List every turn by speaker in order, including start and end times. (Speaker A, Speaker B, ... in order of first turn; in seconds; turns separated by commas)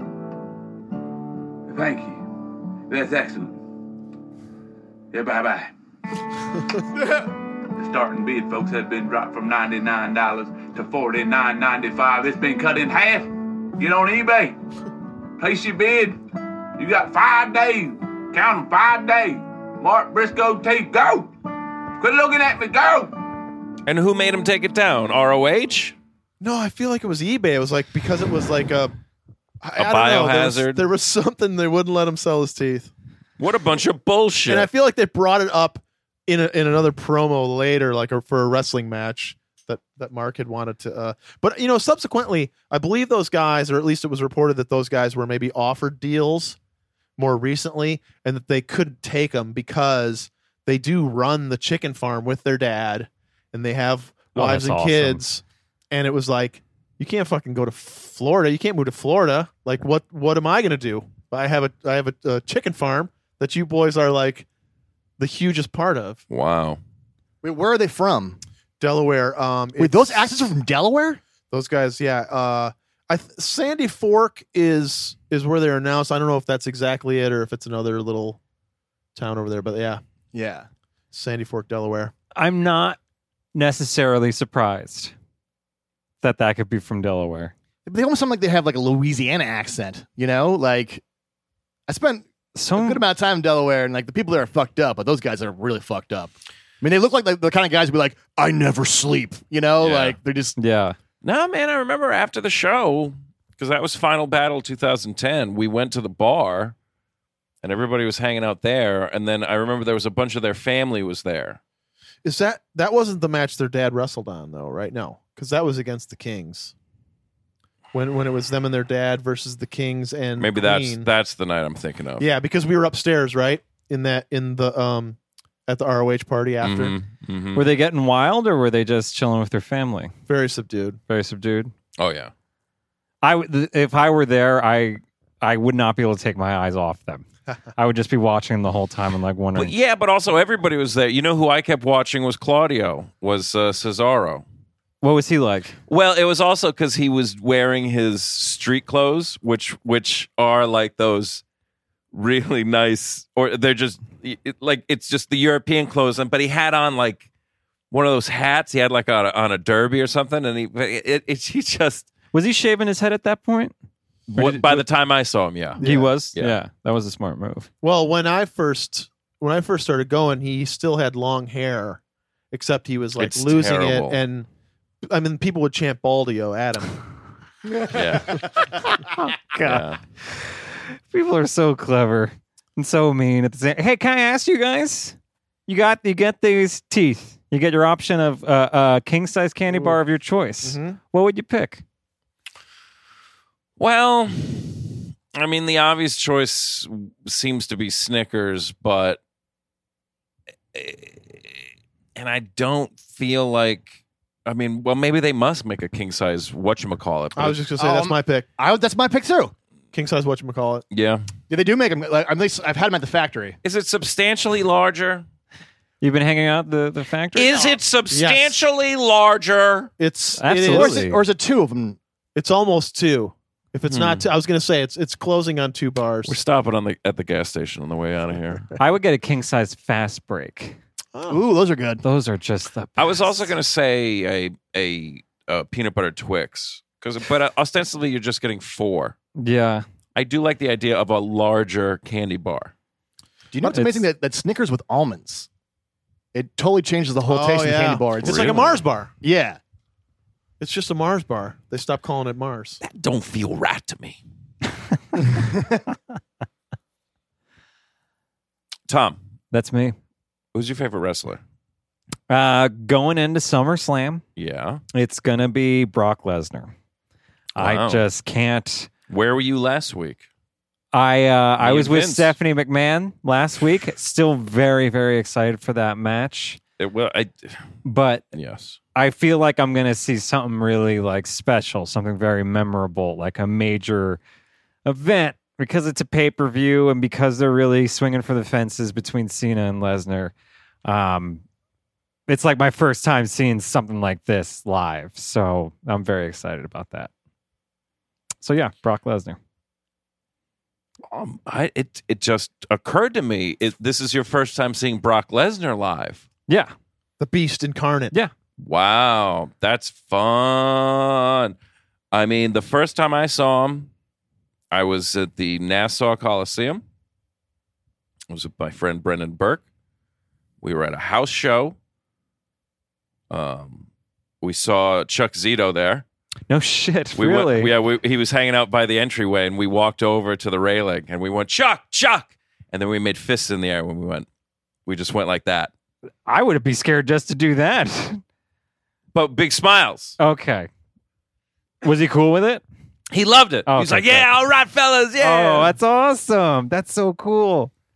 Speaker A: 1.7-2.2, Speaker A: 2.9-3.6, Speaker A: 5.1-5.7, Speaker A: 7.8-14.6, Speaker A: 15.4-16.2, Speaker A: 16.8-21.3, Speaker A: 22.0-23.1, Speaker B: 23.9-25.9, Speaker C: 26.4-28.9, Speaker C: 29.6-32.9, Speaker B: 29.8-30.9, Speaker B: 33.4-34.7, Speaker C: 34.5-46.6, Speaker C: 47.2-64.5, Speaker D: 54.3-55.2, Speaker C: 65.2-66.2, Speaker B: 66.3-66.8, Speaker E: 67.4-68.4, Speaker C: 68.8-70.5, Speaker E: 69.8-71.2, Speaker C: 71.5-78.4, Speaker C: 79.1-80.0, Speaker E: 80.3-80.7, Speaker C: 81.1-82.1, Speaker D: 82.3-83.0, Speaker D: 83.5-85.1, Speaker D: 86.2-87.5, Speaker E: 87.8-91.0, Speaker E: 91.9-100.5, Speaker D: 92.5-93.0, Speaker B: 99.8-100.2, Speaker D: 100.6-101.0, Speaker B: 101.2-106.7, Speaker B: 107.6-111.6, Speaker C: 112.2-116.7, Speaker C: 117.9-121.1, Speaker B: 120.4-122.2, Speaker C: 122.2-127.0, Speaker B: 126.6-127.6, Speaker D: 127.5-130.1, Speaker C: 130.3-131.0, Speaker D: 131.1-131.7, Speaker B: 132.0-132.3, Speaker D: 133.2-139.7, Speaker B: 139.5-144.4, Speaker D: 145.0-145.8, Speaker B: 145.9-151.4, Speaker B: 152.1-157.2, Speaker B: 157.9-162.1, Speaker D: 162.3-163.7, Speaker B: 164.3-165.8, Speaker D: 164.3-164.8, Speaker C: 165.8-166.1, Speaker D: 165.8-167.7, Speaker C: 167.8-172.0, Speaker C: 172.5-174.5, Speaker B: 173.2-174.2, Speaker C: 175.0-177.0, Speaker B: 177.9-178.5, Speaker D: 178.9-191.8, Speaker B: 179.6-180.0, Speaker C: 189.7-190.0, Speaker C: 190.6-191.0, Speaker B: 193.8-199.2, Speaker B: 200.7-207.6, Speaker C: 207.3-208.5, Speaker E: 207.8-209.5, Speaker C: 209.9-210.8, Speaker B: 210.9-211.2, Speaker E: 211.5-213.6, Speaker B: 213.6-215.2, Speaker D: 216.0-217.7, Speaker B: 217.3-219.9, Speaker C: 218.1-218.6, Speaker C: 220.0-221.0, Speaker D: 220.4-221.2, Speaker E: 220.6-222.0, Speaker C: 222.3-226.4, Speaker B: 223.9-224.2, Speaker B: 226.2-228.7, Speaker D: 228.8-230.8, Speaker C: 231.1-231.4, Speaker E: 231.3-232.0, Speaker D: 232.0-233.5, Speaker B: 233.0-239.2, Speaker D: 239.4-239.8, Speaker B: 240.1-242.7, Speaker E: 243.5-245.5, Speaker D: 243.7-244.0, Speaker E: 246.3-249.6, Speaker C: 247.2-249.1, Speaker B: 248.2-248.7, Speaker C: 250.6-252.8, Speaker B: 252.8-254.2, Speaker B: 258.9-259.2, Speaker D: 259.5-259.9, Speaker B: 260.5-261.4, Speaker D: 262.3-264.2, Speaker B: 264.4-264.8, Speaker D: 264.9-266.7, Speaker B: 267.6-268.0, Speaker D: 267.6-268.9, Speaker B: 269.1-270.2, Speaker D: 270.9-276.6, Speaker B: 271.6-272.3, Speaker B: 276.8-277.6, Speaker D: 277.8-278.2, Speaker B: 278.3-278.8, Speaker D: 278.9-284.2, Speaker D: 284.8-290.3, Speaker D: 290.8-291.4, Speaker D: 292.3-297.1, Speaker D: 298.4-299.4, Speaker B: 301.1-306.2, Speaker D: 306.5-306.7, Speaker C: 307.2-308.1, Speaker B: 308.6-311.6, Speaker B: 312.1-313.9, Speaker B: 314.7-316.8, Speaker B: 318.3-319.6, Speaker B: 320.6-321.8, Speaker B: 323.3-323.9, Speaker B: 324.4-326.0, Speaker D: 326.5-327.7, Speaker B: 327.1-334.3, Speaker B: 334.9-335.7, Speaker D: 336.2-338.2, Speaker B: 339.1-340.2, Speaker D: 340.2-340.7, Speaker D: 341.8-342.6, Speaker B: 343.1-345.8, Speaker D: 343.7-344.3, Speaker D: 345.2-347.7